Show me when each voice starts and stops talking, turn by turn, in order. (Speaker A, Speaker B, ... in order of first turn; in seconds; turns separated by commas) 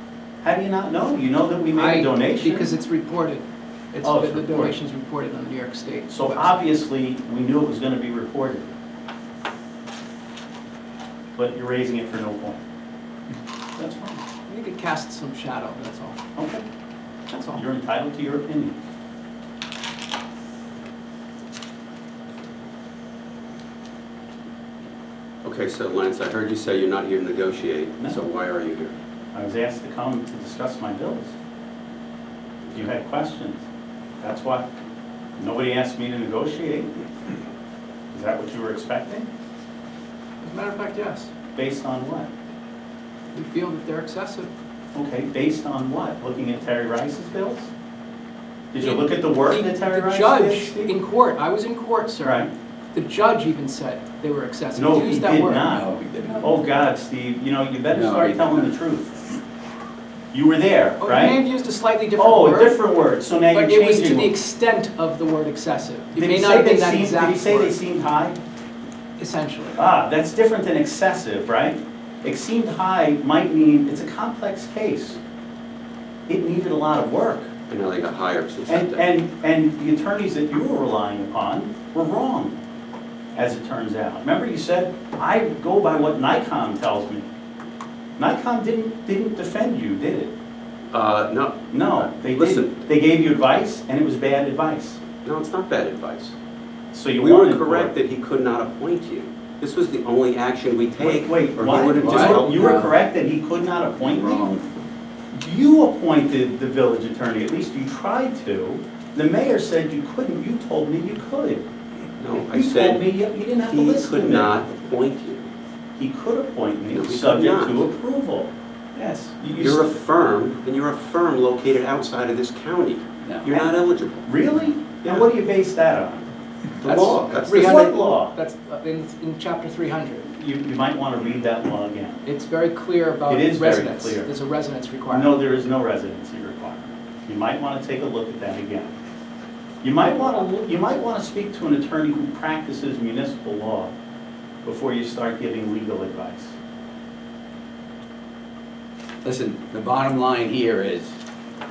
Speaker A: 0.4-2.7, Speaker B: 1.7-6.6, Speaker A: 4.0-4.7, Speaker A: 6.1-8.7, Speaker A: 11.4-12.6, Speaker A: 13.8-14.2, Speaker B: 14.5-16.2, Speaker A: 16.4-16.6, Speaker B: 17.3-17.6, Speaker A: 17.4-18.8, Speaker C: 25.4-28.9, Speaker A: 29.3-31.4, Speaker A: 32.7-33.6, Speaker A: 34.2-34.7, Speaker A: 35.4-37.0, Speaker A: 38.1-39.3, Speaker B: 40.4-41.3, Speaker A: 41.5-42.3, Speaker B: 43.3-44.5, Speaker A: 44.9-47.7, Speaker A: 48.7-51.0, Speaker B: 48.8-56.4, Speaker A: 52.2-52.5, Speaker A: 54.8-55.9, Speaker D: 55.7-56.6, Speaker A: 56.4-59.2, Speaker D: 57.9-58.7, Speaker A: 60.3-61.4, Speaker B: 61.0-62.8, Speaker A: 62.2-64.3, Speaker B: 63.5-67.8, Speaker A: 66.2-68.4, Speaker B: 69.2-69.8, Speaker A: 69.8-75.2, Speaker A: 76.3-77.5, Speaker C: 77.7-79.0, Speaker A: 78.7-82.6, Speaker A: 83.3-87.3, Speaker A: 88.2-90.3, Speaker C: 90.9-92.8, Speaker A: 91.7-95.0, Speaker C: 95.2-96.3, Speaker A: 96.9-98.0, Speaker C: 97.2-102.9, Speaker A: 101.0-104.5, Speaker D: 102.0-102.9, Speaker D: 104.0-104.6, Speaker A: 105.3-111.6, Speaker C: 112.2-113.1, Speaker A: 112.4-114.7, Speaker C: 113.7-115.5, Speaker A: 116.0-118.5, Speaker C: 116.9-117.9, Speaker D: 119.0-119.3, Speaker A: 119.4-120.0, Speaker C: 119.5-124.2, Speaker A: 124.2-126.3, Speaker C: 125.0-125.3, Speaker C: 126.8-128.1, Speaker D: 126.9-127.3, Speaker B: 127.4-130.3, Speaker A: 127.5-128.3, Speaker A: 130.3-132.2, Speaker B: 132.2-135.4, Speaker A: 133.3-134.3, Speaker A: 135.1-138.9, Speaker A: 139.8-143.9, Speaker A: 144.6-146.6, Speaker D: 149.2-151.2